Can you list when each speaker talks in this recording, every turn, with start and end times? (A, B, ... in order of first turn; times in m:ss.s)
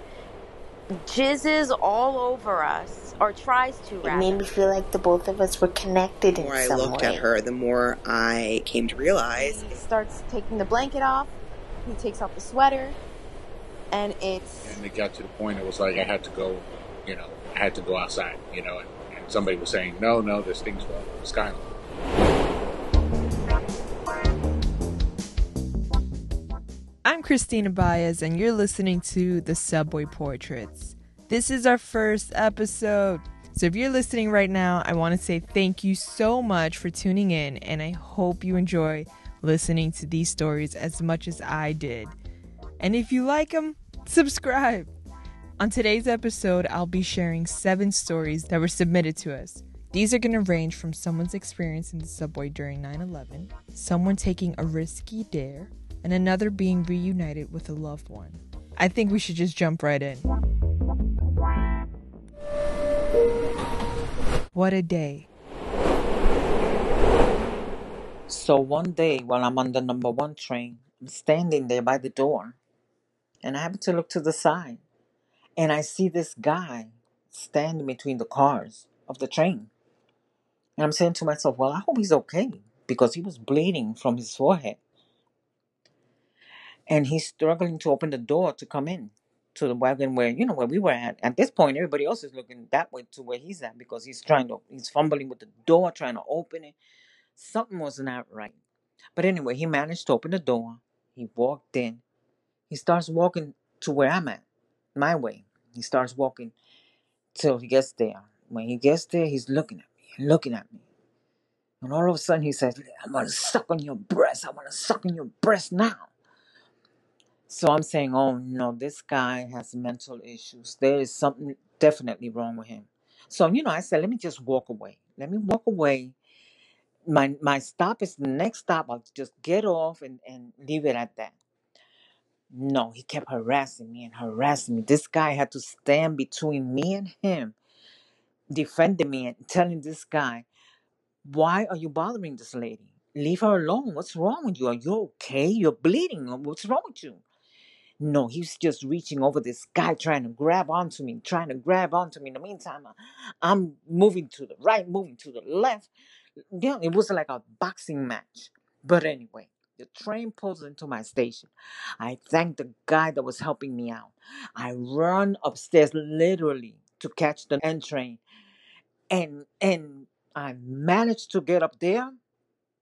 0:01.0-0:04.4 A
0:04.0-0:07.2 B
0:06.3-0:09.8 C
0:09.3-0:11.3 D
0:11.9-0:13.0 D
0:13.9-0:14.8 D
0:14.6-0:21.6 E
0:27.0-0:42.2 F
0:42.8-0:44.9 F
0:45.6-1:00.3 F
1:04.5-1:05.3 F
1:08.3-1:12.6 G
1:13.4-1:14.8 G
1:15.6-1:19.7 G
1:20.8-1:24.8 G
1:26.9-1:36.8 G
1:37.4-1:38.6 G
1:39.2-1:42.0 G
1:42.7-1:44.4 G
1:45.0-1:46.6 G
1:47.4-1:50.8 G
1:51.8-1:56.1 G
1:57.5-2:06.2 G
2:07.1-2:11.4 G
2:12.5-2:17.6 G
2:18.5-2:20.4 G
2:21.2-2:27.2 G
2:28.0-2:35.9 G
2:36.5-2:48.2 G
2:49.1-2:52.2 G